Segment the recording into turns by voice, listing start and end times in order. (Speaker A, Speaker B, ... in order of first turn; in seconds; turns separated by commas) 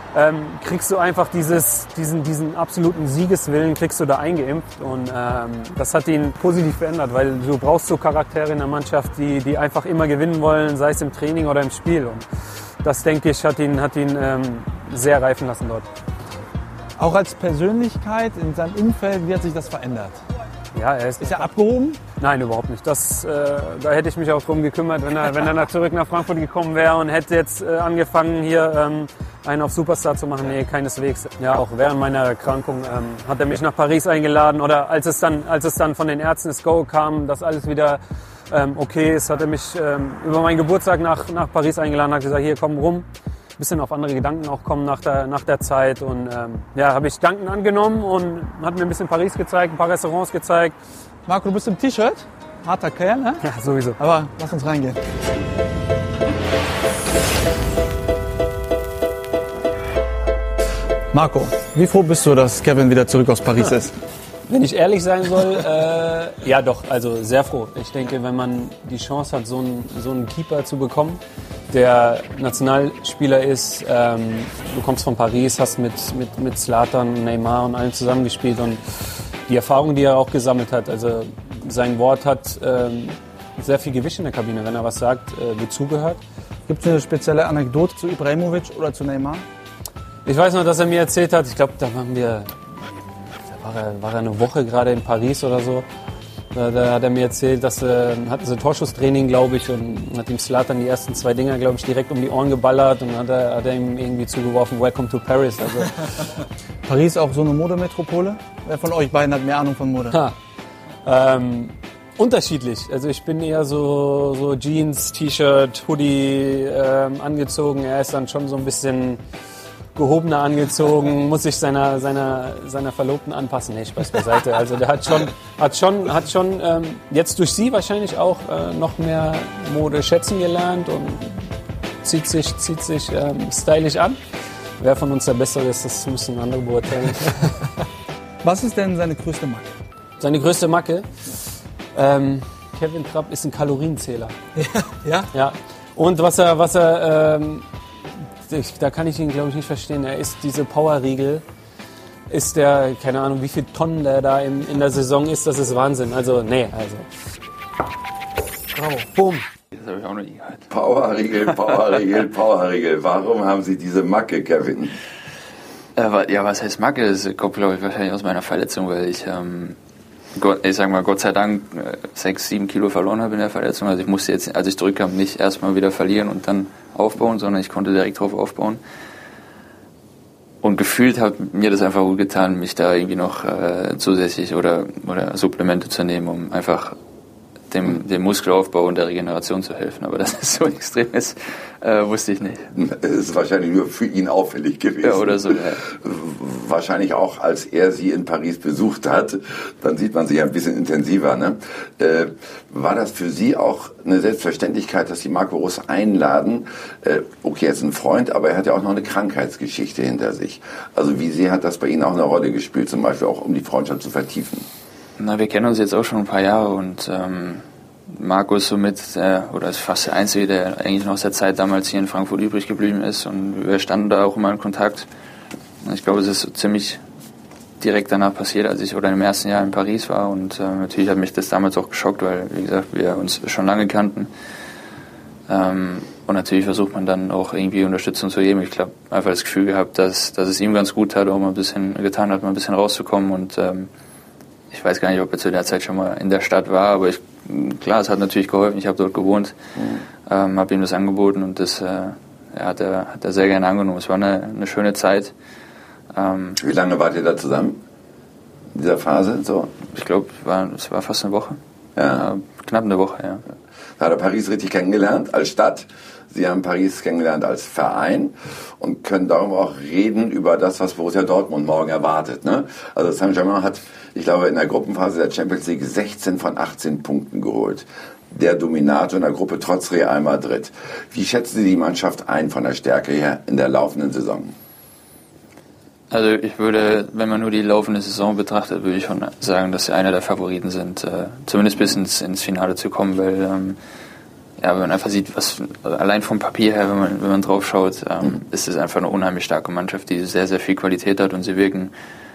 Speaker A: 0.1-12.2, Speaker A: 12.8-15.9, Speaker B: 17.0-20.2, Speaker A: 20.8-21.5, Speaker B: 21.2-22.0, Speaker A: 22.1-43.1, Speaker A: 43.6-50.8, Speaker B: 51.3-53.4, Speaker A: 53.4-54.0, Speaker B: 54.0-55.0, Speaker B: 61.1-63.9, Speaker A: 64.5-78.8, Speaker A: 79.5-86.2, Speaker B: 86.7-89.4, Speaker A: 90.3-92.5, Speaker A: 93.5-95.8, Speaker A: 96.5-106.1, Speaker B: 106.9-110.2, Speaker A: 111.0-119.2, Speaker A: 120.0-131.5, Speaker A: 132.0-134.2, Speaker A: 134.8-137.7, Speaker B: 138.4-139.7, Speaker A: 140.2-141.1, Speaker A: 141.9-144.3, Speaker B: 144.6-145.3, Speaker A: 145.3-147.7, Speaker A: 148.5-151.4, Speaker A: 152.3-157.1, Speaker A: 158.7-159.5, Speaker C: 159.8-160.7, Speaker D: 160.7-165.0, Speaker C: 166.0-169.8, Speaker C: 170.4-178.8, Speaker C: 180.6-187.0, Speaker C: 187.7-192.7, Speaker D: 192.8-214.7, Speaker C: 195.0-195.8, Speaker C: 215.2-225.1, Speaker C: 225.8-227.0, Speaker C: 227.8-234.3, Speaker C: 235.5-243.9, Speaker C: 244.7-249.6, Speaker C: 250.3-255.3, Speaker C: 256.1-256.6, Speaker D: 256.6-257.8, Speaker D: 258.7-259.8, Speaker C: 259.9-261.6, Speaker D: 262.0-262.3, Speaker C: 262.1-263.4, Speaker D: 264.0-284.5, Speaker C: 286.1-293.8, Speaker C: 294.6-301.9